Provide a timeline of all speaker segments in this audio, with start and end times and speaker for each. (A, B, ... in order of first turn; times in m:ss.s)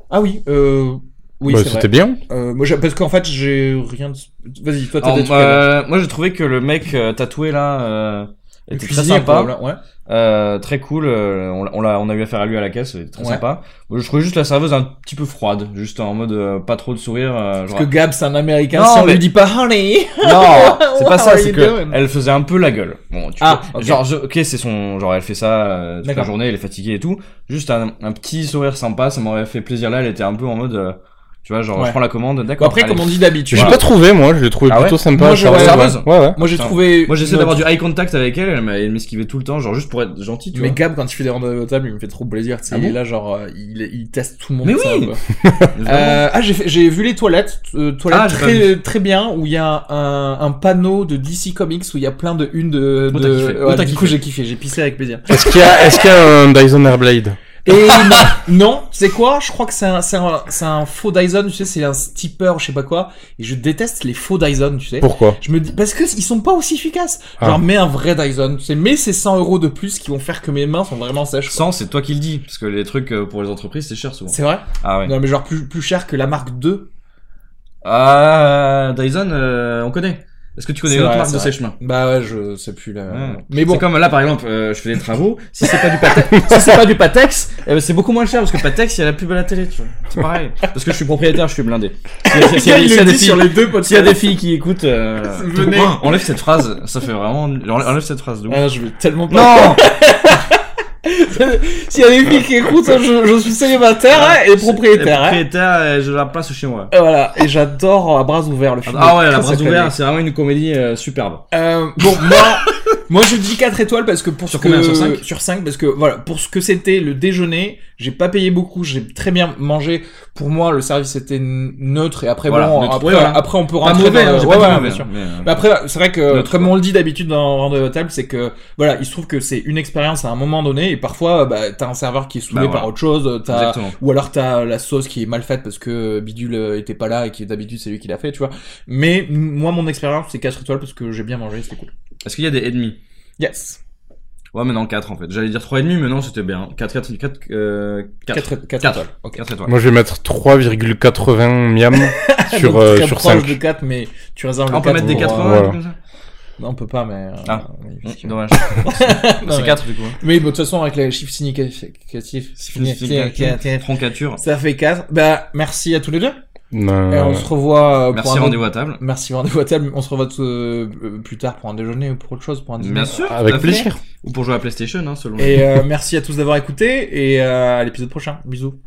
0:00.1-0:05.7 A
0:01.5-0:02.2 B
0:05.0-0:09.5 C
0:08.7-0:09.8 A
0:10.0-0:17.9 C
0:13.2-0:13.4 A
0:17.7-0:22.0 A
0:18.7-0:19.3 C
0:20.2-0:33.8 C
0:23.4-0:24.0 A
0:26.0-0:26.3 A
0:32.6-0:33.8 A
0:33.5-0:36.4 B
0:34.7-0:37.7 A
0:34.7-0:34.9 C
0:35.4-0:40.8 C
0:40.5-0:45.2 A
0:42.7-0:43.0 C
0:44.6-0:45.1 C
0:45.4-0:45.7 B
0:45.7-0:46.2 C
0:45.8-0:55.6 A
0:48.1-0:48.8 C
0:53.1-0:54.2 C
0:55.3-0:57.4 B
0:57.6-1:11.7 A
1:05.0-1:05.4 B
1:11.5-1:15.1 C
1:14.3-1:16.9 A
1:17.8-1:21.8 C
1:20.9-1:23.8 A
1:23.1-1:38.6 C
1:25.8-1:26.2 A
1:32.2-1:34.3 A
1:35.2-1:36.2 A
1:38.5-1:45.4 A
1:39.3-1:39.8 C
1:44.1-1:46.9 C
1:46.9-1:49.9 A
1:48.8-1:51.4 C
1:51.5-2:21.9 A
1:52.2-1:52.7 C
1:54.5-1:55.2 C
2:02.5-2:05.6 C
2:06.3-2:06.8 C
2:12.5-2:12.9 C
2:13.4-2:14.0 C
2:22.2-2:23.0 C
2:23.4-2:23.8 A
2:24.5-2:29.8 C
2:28.3-2:29.4 A
2:29.6-2:33.6 B
2:31.9-2:35.7 A
2:34.7-2:36.0 C
2:35.0-2:35.8 B
2:36.6-2:46.4 A
2:37.4-2:40.2 C
2:42.6-2:44.4 C
2:46.7-2:47.4 B
2:47.1-2:53.9 A
2:48.1-2:49.0 C
2:52.8-2:55.7 C
2:53.2-2:54.0 B
2:55.4-2:58.8 A